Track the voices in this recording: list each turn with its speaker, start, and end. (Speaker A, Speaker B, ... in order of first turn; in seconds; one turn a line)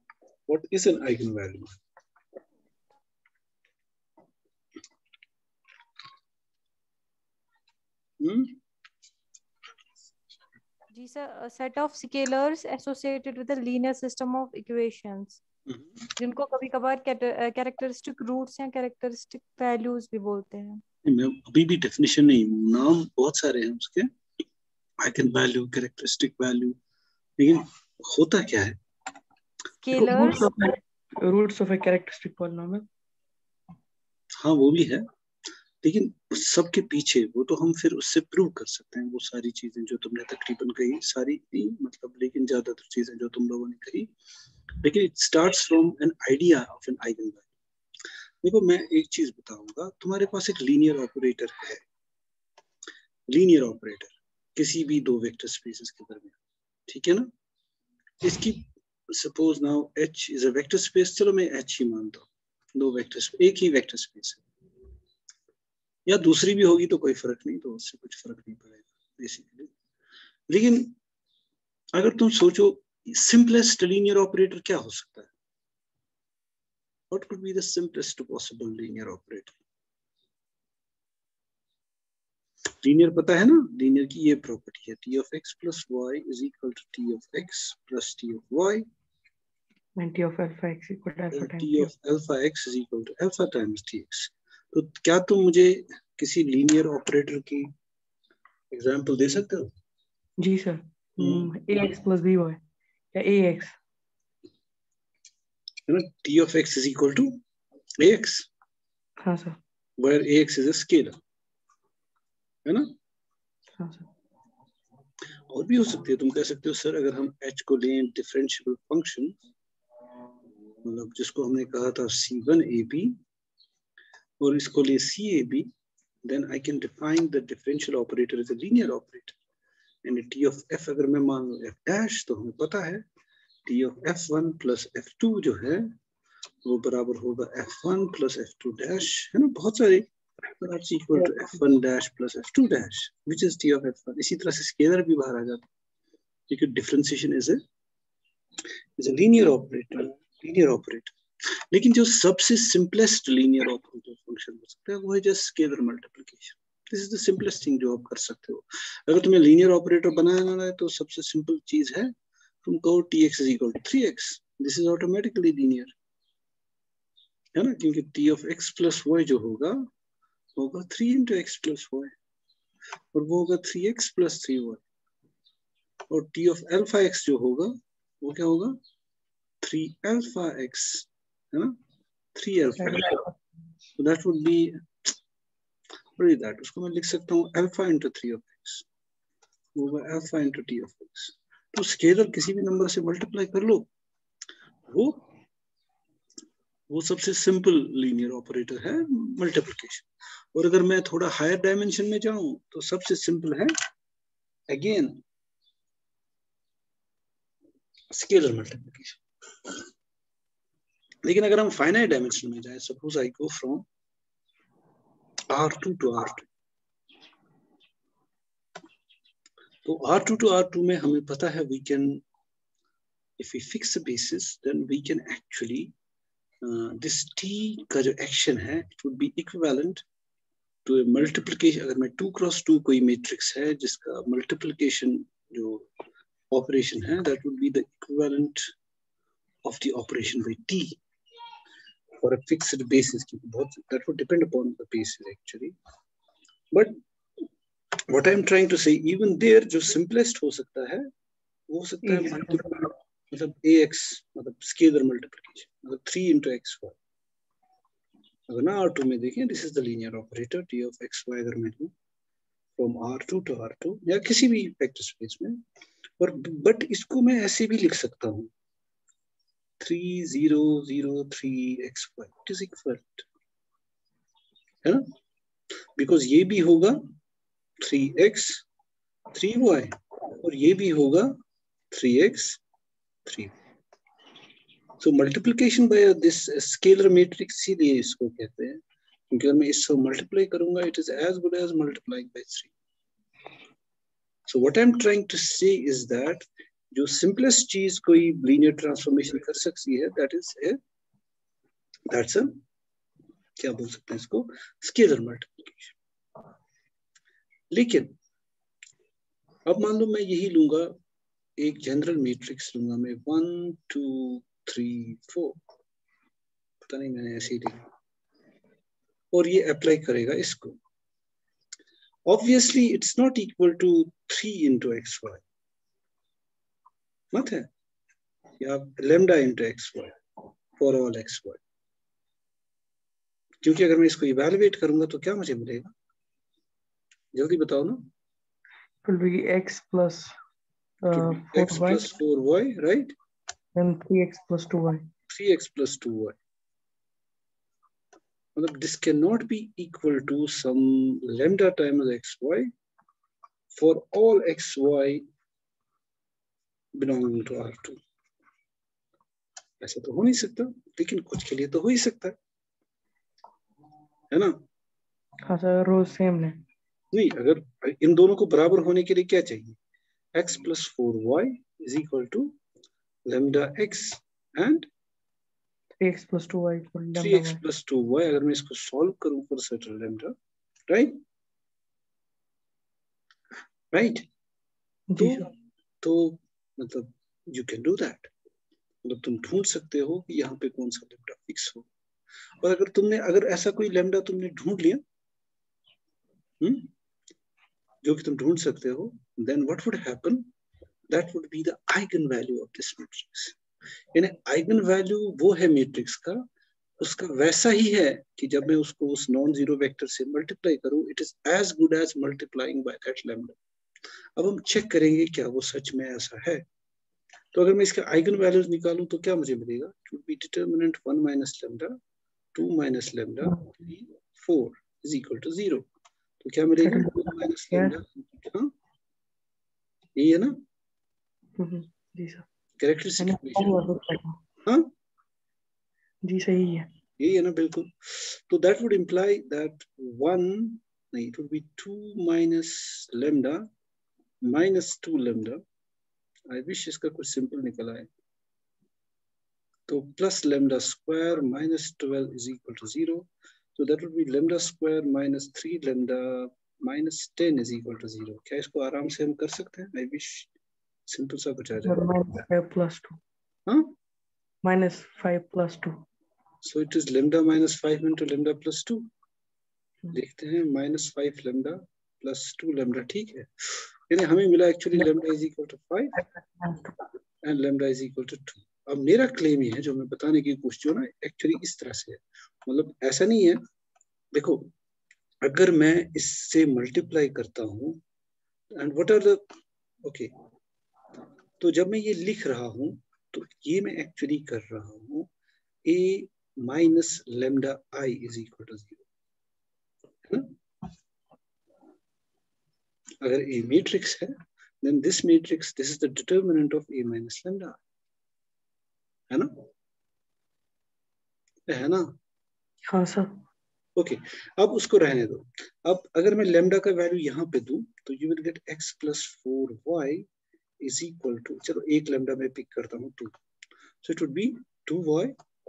Speaker A: 0.5-1.8
Speaker A: 8.2-8.6
Speaker B: 10.9-15.4
Speaker B: 16.1-20.8
Speaker A: 21.1-24.1
Speaker A: 25.0-26.8
Speaker A: 27.4-28.8
Speaker B: 29.8-30.5
Speaker A: 29.9-30.6
Speaker C: 29.9-32.8
Speaker A: 34.4-35.1
Speaker A: 35.8-44.1
Speaker A: 44.8-47.5
Speaker A: 48.4-51.8
Speaker A: 53.3-56.4
Speaker A: 56.9-57.3
Speaker A: 58.2-64.4
Speaker A: 66.1-69.7
Speaker A: 70.5-71.0
Speaker A: 71.9-75.3
Speaker A: 77.1-79.5
Speaker A: 82.8-88.9
Speaker C: 90.0-91.9
Speaker A: 91.3-97.7
Speaker A: 98.7-99.7
Speaker C: 100.4-102.6
Speaker A: 101.2-101.5
Speaker C: 103.1-103.8
Speaker A: 105.9-107.4
Speaker A: 108.0-108.5
Speaker C: 109.2-109.6
Speaker A: 110.0-111.2
Speaker A: 112.7-112.9
Speaker C: 113.8-114.1
Speaker A: 115.5-119.4
Speaker A: 120.8-123.2
Speaker A: 124.4-125.7
Speaker A: 126.2-129.4
Speaker A: 130.1-133.0
Speaker A: 133.7-135.9
Speaker A: 136.6-145.6
Speaker A: 146.5-147.6
Speaker A: 149.0-162.1
Speaker A: 162.6-165.9
Speaker A: 167.6-169.9
Speaker A: 170.6-172.1
Speaker A: 173.1-174.8
Speaker A: 176.1-178.8
Speaker A: 179.6-181.8
Speaker A: 182.3-183.3
Speaker C: 182.8-183.2
Speaker A: 184.0-184.8
Speaker A: 186.2-188.8
Speaker A: 189.7-193.9
Speaker A: 194.9-195.2
Speaker A: 196.9-203.7
Speaker A: 204.7-205.2
Speaker A: 208.1-209.8
Speaker A: 211.2-213.8
Speaker A: 215.5-216.5
Speaker A: 219.8-222.2
Speaker A: 223.4-225.9
Speaker A: 226.6-230.0
Speaker A: 230.9-235.9
Speaker A: 236.5-238.7
Speaker A: 239.6-241.0
Speaker A: 242.2-245.7
Speaker A: 246.7-247.0
Speaker A: 248.1-251.1
Speaker A: 251.7-256.9
Speaker C: 252.1-252.7
Speaker A: 258.5-261.9
Speaker A: 262.8-265.6
Speaker A: 266.2-268.5
Speaker A: 269.8-273.3
Speaker A: 274.8-275.1
Speaker A: 276.0-277.0
Speaker A: 277.8-278.6
Speaker A: 279.3-281.4
Speaker A: 281.9-282.6
Speaker A: 283.3-283.6
Speaker A: 285.0-292.7
Speaker A: 294.5-300.8
Speaker A: 302.1-302.6
Speaker A: 303.6-305.9
Speaker A: 307.7-308.1
Speaker A: 309.7-310.9
Speaker A: 311.6-315.6
Speaker A: 316.8-317.8
Speaker A: 319.3-320.8
Speaker A: 322.3-325.4
Speaker A: 327.3-327.7
Speaker A: 328.6-330.2
Speaker A: 330.8-331.6
Speaker A: 333.6-335.9
Speaker A: 337.3-338.1
Speaker C: 339.1-340.3
Speaker C: 341.0-342.1
Speaker A: 341.1-343.1
Speaker C: 343.7-345.1
Speaker A: 345.3-346.4
Speaker A: 348.6-352.7
Speaker A: 353.7-355.2
Speaker A: 356.9-358.0
Speaker A: 359.8-362.4
Speaker A: 364.3-364.6
Speaker C: 365.5-366.6
Speaker A: 367.1-369.8
Speaker A: 370.3-372.6
Speaker A: 373.3-374.9
Speaker C: 376.0-377.6
Speaker A: 377.2-380.3
Speaker A: 380.9-381.2
Speaker A: 383.9-384.3
Speaker C: 385.1-385.5
Speaker A: 385.2-385.5
Speaker A: 386.0-388.3
Speaker A: 389.0-391.9
Speaker A: 392.6-395.0
Speaker A: 396.6-396.9
Speaker A: 398.0-400.5
Speaker A: 401.1-403.6
Speaker A: 404.1-406.4
Speaker A: 407.0-413.6
Speaker A: 414.4-416.6
Speaker A: 417.5-422.0
Speaker A: 422.5-425.9
Speaker A: 426.4-428.7
Speaker C: 426.8-428.0
Speaker A: 430.2-430.6
Speaker C: 431.6-432.4
Speaker A: 432.8-433.9
Speaker C: 433.2-434.4
Speaker C: 436.2-436.9
Speaker A: 437.2-443.7
Speaker A: 444.4-445.6
Speaker A: 446.5-448.1
Speaker A: 449.9-460.5
Speaker A: 461.1-462.1
Speaker C: 461.8-463.2
Speaker A: 463.7-463.9
Speaker C: 464.6-466.1
Speaker A: 466.6-469.1
Speaker A: 470.1-476.2
Speaker C: 476.1-476.9
Speaker A: 477.4-483.6
Speaker A: 484.3-484.7
Speaker A: 485.4-488.0
Speaker A: 488.7-489.4
Speaker A: 490.0-490.3
Speaker A: 491.6-495.3
Speaker A: 495.8-499.1
Speaker A: 500.3-500.6
Speaker A: 503.2-507.8
Speaker A: 509.3-509.7
Speaker A: 511.7-512.1
Speaker C: 512.9-513.4
Speaker A: 514.0-520.3
Speaker A: 520.8-523.3
Speaker A: 524.0-525.4